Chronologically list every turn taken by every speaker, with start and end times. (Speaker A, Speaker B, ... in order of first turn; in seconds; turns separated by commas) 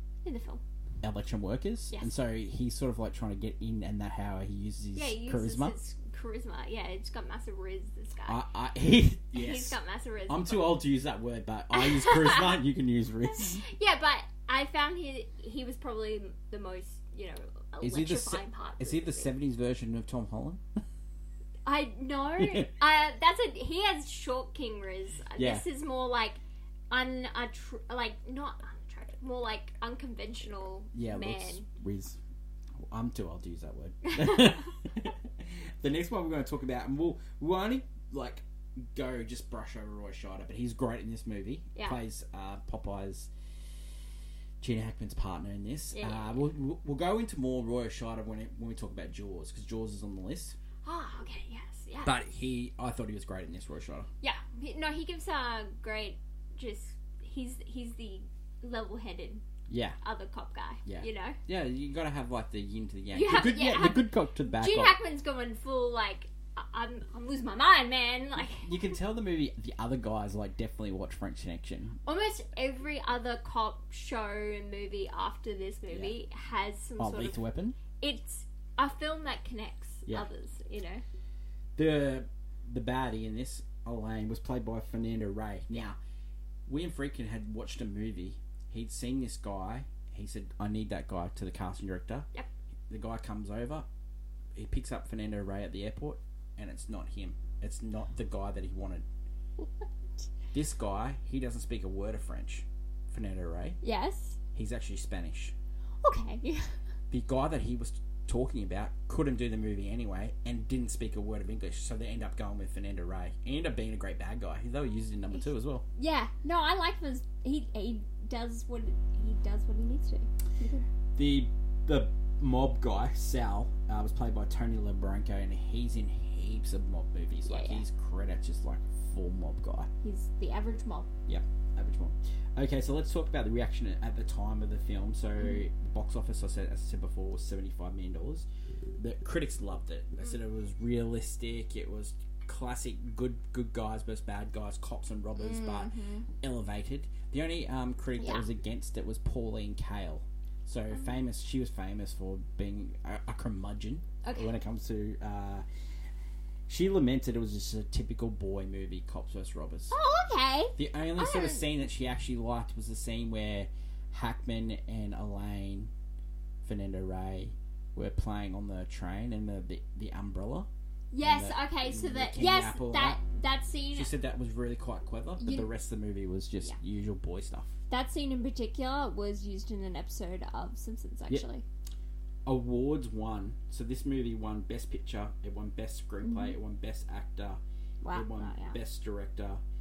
Speaker A: 0.2-0.6, Speaker B: 1.0-5.8, Speaker A: 5.0-8.4, Speaker B: 8.3-9.8, Speaker A: 9.3-10.7, Speaker B: 10.3-13.6, Speaker A: 11.7-12.6, Speaker A: 13.3-19.3, Speaker B: 17.8-20.6, Speaker A: 21.6-31.7, Speaker B: 22.4-22.7, Speaker B: 25.4-25.6, Speaker B: 30.9-32.2, Speaker B: 32.9-43.3, Speaker A: 34.0-34.7, Speaker B: 44.6-50.6, Speaker A: 45.9-46.5, Speaker A: 50.8-52.2, Speaker B: 52.0-54.1, Speaker A: 54.2-59.4, Speaker B: 59.7-60.0, Speaker A: 60.0-61.4, Speaker B: 60.9-65.0, Speaker A: 63.1-69.0, Speaker B: 68.4-72.0, Speaker A: 72.1-77.4, Speaker B: 75.9-76.2, Speaker B: 77.0-77.8, Speaker A: 78.0-81.0, Speaker B: 81.8-86.0, Speaker B: 86.7-92.3, Speaker B: 92.9-93.9, Speaker B: 94.6-99.0, Speaker A: 99.6-100.3, Speaker B: 100.5-103.8, Speaker A: 103.8-104.4, Speaker B: 104.5-105.5, Speaker A: 106.0-106.8, Speaker B: 107.1-115.8, Speaker A: 116.0-120.9, Speaker B: 121.2-129.9, Speaker A: 127.5-127.8, Speaker A: 130.0-131.1, Speaker B: 131.3-138.5, Speaker B: 139.0-155.6, Speaker A: 145.4-146.3, Speaker A: 148.2-148.5, Speaker A: 150.9-151.2, Speaker A: 154.2-154.5, Speaker B: 156.7-159.9, Speaker A: 159.9-161.6, Speaker B: 160.8-165.9, Speaker B: 166.6-170.7, Speaker A: 171.1-174.1, Speaker B: 171.2-173.2, Speaker B: 173.9-177.8, Speaker A: 175.4-175.7, Speaker A: 177.9-181.6, Speaker B: 182.5-187.6, Speaker A: 186.2-186.6, Speaker A: 188.0-188.8, Speaker B: 188.1-189.6